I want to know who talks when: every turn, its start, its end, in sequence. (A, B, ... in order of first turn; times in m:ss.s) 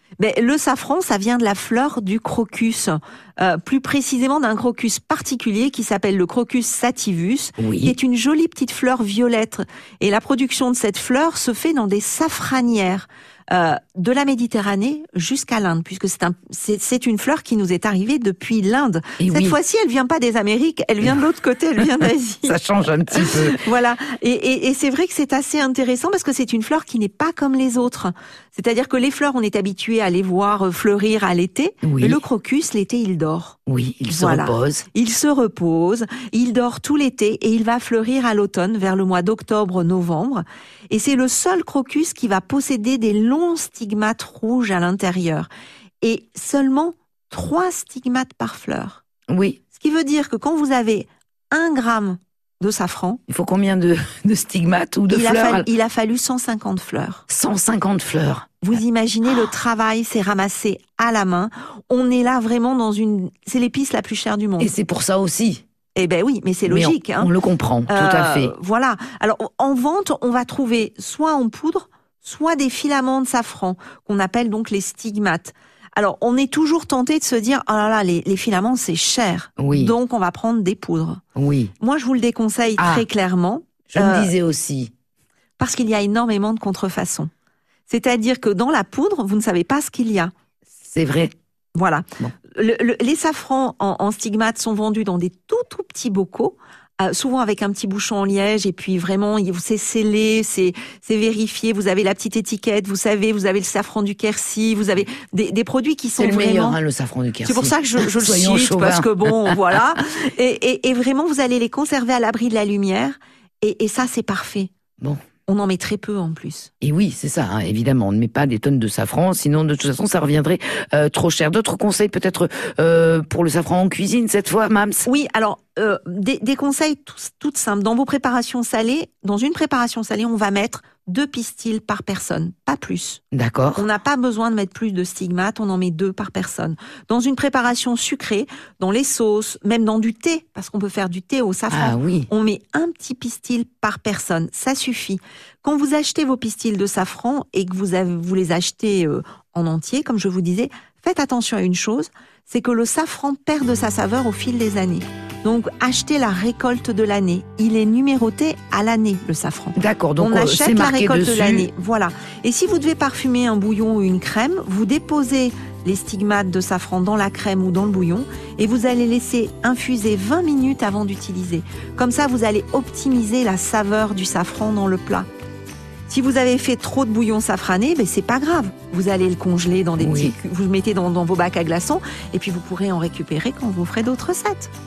0:00.2-0:22.6 A
0:07.6-0:08.0 B
0:19.2-0:19.6 B
0:22.5-0:23.6 B
0:23.1-0:45.5 A
0:31.8-0:32.2 B
0:33.7-0:34.9 B
0:46.0-0:49.0 A
0:49.3-0:49.6 B
0:49.7-0:53.2 A
0:53.3-0:55.7 B
0:55.1-0:57.2 A
0:57.3-0:58.6 B
0:58.6-1:04.7 A
1:04.6-1:05.6 B
1:06.0-1:07.3 A
1:06.7-1:08.5 B
1:07.9-1:21.2 A
1:19.6-1:19.9 B
1:21.4-1:21.7 B
1:21.8-1:24.3 A
1:22.8-1:23.1 B
1:23.9-1:24.9 B
1:25.6-1:27.3 A
1:27.9-1:30.3 A
1:30.8-1:31.3 B
1:31.8-1:46.8 A
1:46.2-1:49.8 B
1:47.4-1:54.7 A
1:55.5-1:56.7 A
1:56.8-2:05.1 B
2:05.0-2:13.2 A
2:13.3-2:13.9 B
2:13.8-2:55.3 A
2:21.7-2:22.3 B
2:39.8-2:41.7 B
2:56.1-3:04.7 A
3:00.0-3:00.4 B